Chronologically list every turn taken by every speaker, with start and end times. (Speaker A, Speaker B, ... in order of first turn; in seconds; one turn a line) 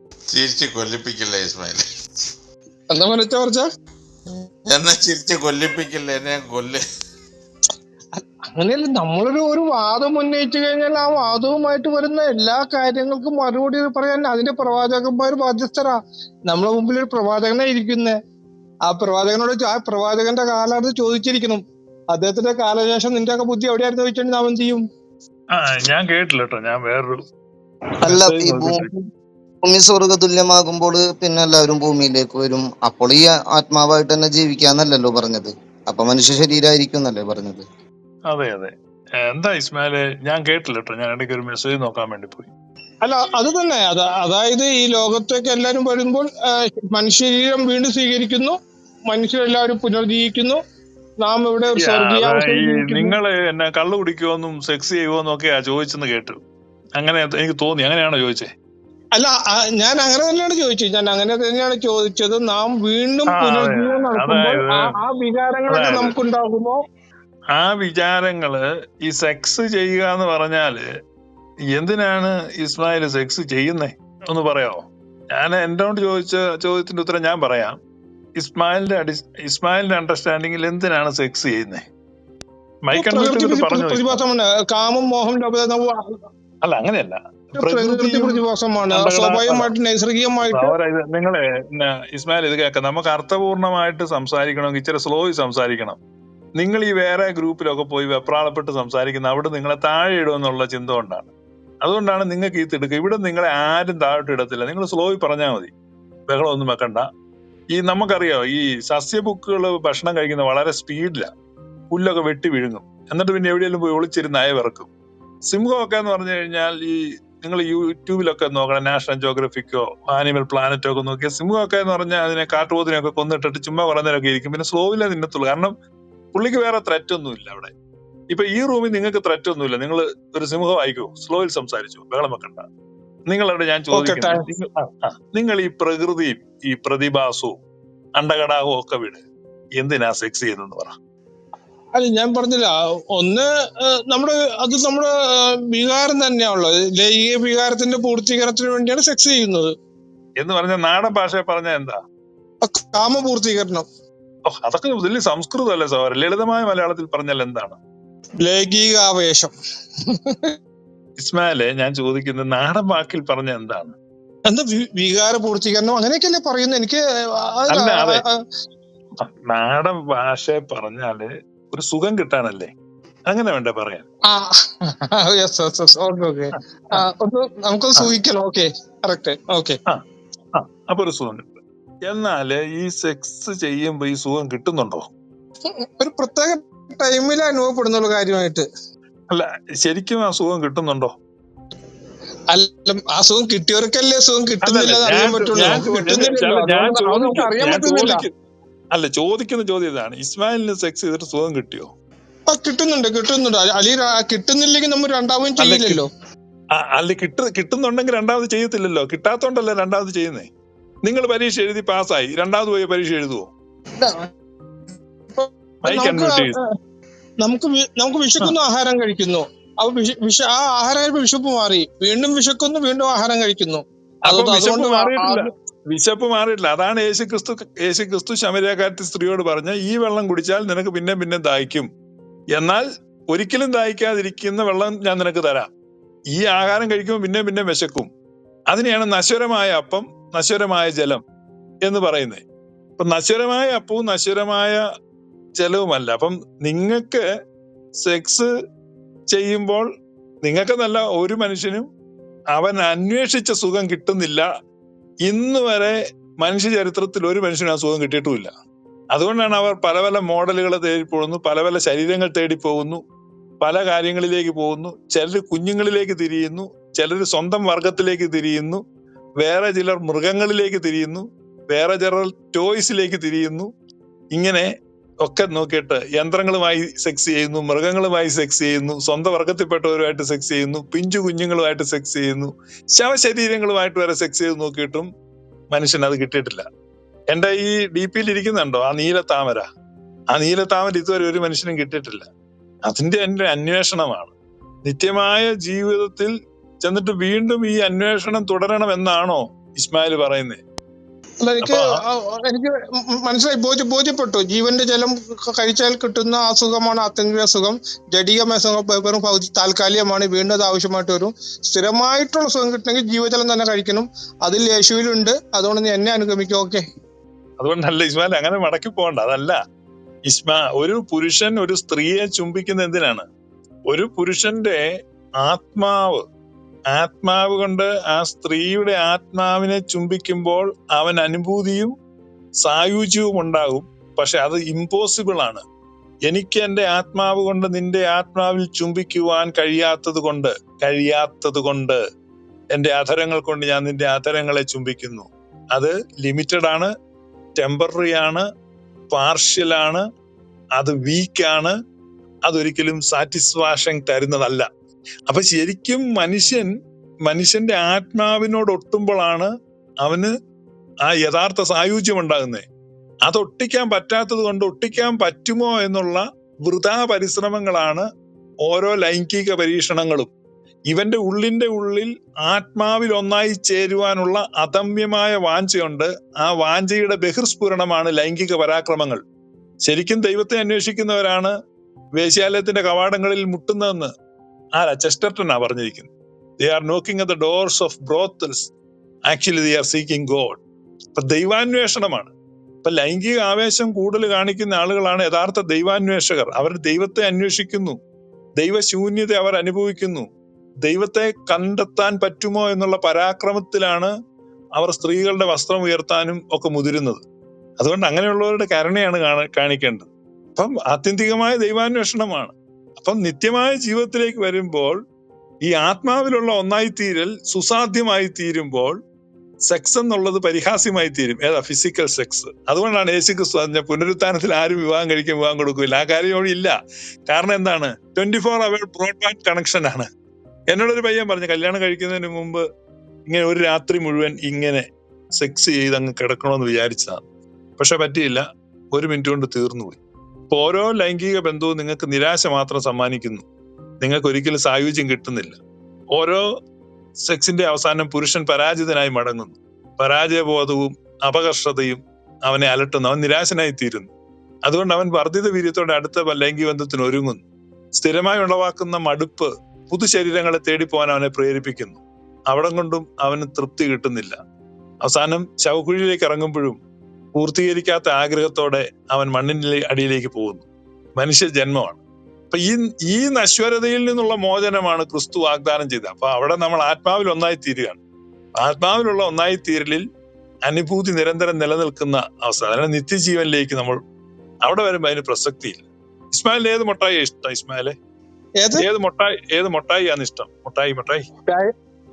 Speaker A: 0.3-1.8
Speaker B: 2.9-3.6
Speaker A: 4.7-6.8
Speaker B: 8.1-15.9
Speaker B: 16.5-18.2
Speaker B: 18.9-21.6
Speaker B: 22.1-24.8
Speaker C: 25.5-27.2
Speaker C: 28.0-28.9
Speaker D: 28.0-28.9
Speaker D: 29.6-37.6
Speaker C: 38.3-42.5
Speaker B: 43.0-48.5
Speaker B: 49.1-50.6
Speaker B: 51.2-53.1
Speaker C: 51.8-56.4
Speaker C: 57.0-58.5
Speaker B: 59.1-66.8
Speaker C: 63.3-64.9
Speaker C: 65.7-66.1
Speaker C: 67.5-70.8
Speaker C: 71.7-77.8
Speaker C: 78.4-81.8
Speaker C: 82.8-84.2
Speaker B: 82.9-85.9
Speaker C: 86.6-89.7
Speaker B: 87.6-90.7
Speaker C: 90.4-96.0
Speaker C: 96.6-101.3
Speaker C: 101.8-105.7
Speaker C: 106.3-107.0
Speaker C: 107.7-111.3
Speaker C: 111.9-114.9
Speaker C: 115.5-125.7
Speaker C: 126.3-127.7
Speaker C: 128.3-132.7
Speaker C: 133.3-137.6
Speaker B: 133.9-134.4
Speaker C: 138.2-139.2
Speaker C: 139.8-140.9
Speaker B: 141.9-143.4
Speaker B: 144.1-145.1
Speaker B: 145.7-149.7
Speaker C: 150.4-152.0
Speaker B: 152.6-153.8
Speaker C: 154.5-157.8
Speaker B: 158.4-159.5
Speaker B: 160.1-160.5
Speaker C: 161.2-163.9
Speaker B: 164.5-168.3
Speaker C: 167.7-168.2
Speaker C: 169.2-172.7
Speaker C: 173.3-174.0
Speaker B: 174.3-179.8
Speaker C: 179.9-181.5
Speaker C: 182.1-185.1
Speaker B: 186.0-188.7
Speaker C: 189.3-191.1
Speaker B: 192.5-198.2
Speaker C: 194.6-198.3
Speaker C: 198.9-201.9
Speaker B: 202.5-206.1
Speaker C: 205.6-206.0
Speaker C: 206.8-210.5
Speaker C: 211.0-213.5
Speaker B: 214.0-214.3
Speaker B: 215.3-216.6
Speaker C: 215.8-216.6
Speaker B: 217.4-225.4
Speaker C: 224.2-231.9
Speaker C: 232.5-235.7
Speaker C: 236.3-238.1
Speaker C: 238.7-241.2
Speaker C: 241.8-242.4
Speaker C: 243.0-244.8
Speaker C: 245.6-247.2
Speaker C: 248.0-248.5
Speaker C: 249.3-249.8
Speaker C: 250.4-251.9
Speaker C: 252.5-254.4
Speaker C: 255.2-258.5
Speaker C: 259.1-263.0
Speaker C: 263.6-268.8
Speaker C: 269.4-273.7
Speaker C: 274.3-274.7
Speaker C: 275.2-285.1
Speaker C: 285.7-286.6
Speaker C: 287.3-289.6
Speaker C: 290.3-292.3
Speaker C: 292.9-294.3
Speaker C: 294.8-296.3
Speaker C: 296.8-300.6
Speaker B: 301.4-316.8
Speaker C: 301.6-302.0
Speaker C: 317.6-319.6
Speaker C: 320.3-323.3
Speaker C: 323.9-324.8
Speaker C: 325.4-326.2
Speaker C: 326.9-331.9
Speaker C: 332.6-335.6
Speaker C: 336.3-342.0
Speaker C: 342.7-346.9
Speaker C: 347.6-348.4
Speaker C: 349.1-350.0
Speaker C: 350.8-351.8
Speaker C: 352.5-354.7
Speaker C: 355.3-356.7
Speaker C: 357.3-359.5
Speaker C: 360.0-360.3
Speaker C: 361.1-362.6
Speaker C: 363.2-368.1
Speaker C: 368.6-370.3
Speaker C: 370.9-379.2
Speaker C: 379.8-381.5
Speaker C: 382.2-384.1
Speaker C: 384.8-388.7
Speaker C: 389.3-390.6
Speaker C: 391.1-392.3
Speaker C: 392.8-398.0
Speaker C: 398.6-400.3
Speaker C: 400.8-404.1
Speaker C: 404.8-407.2
Speaker C: 407.8-415.0
Speaker C: 415.6-419.0
Speaker C: 419.7-426.7
Speaker C: 427.3-430.1
Speaker C: 430.7-432.6
Speaker C: 433.3-434.9
Speaker C: 435.4-437.2
Speaker C: 437.8-440.0
Speaker C: 440.5-443.4
Speaker C: 444.0-445.6
Speaker C: 446.1-446.4
Speaker C: 447.2-454.1
Speaker C: 454.6-457.4
Speaker C: 457.9-464.4
Speaker C: 465.0-466.8
Speaker C: 467.4-470.6
Speaker C: 471.2-478.0
Speaker C: 478.6-480.0
Speaker C: 480.7-484.0
Speaker C: 484.6-487.9
Speaker C: 488.8-491.3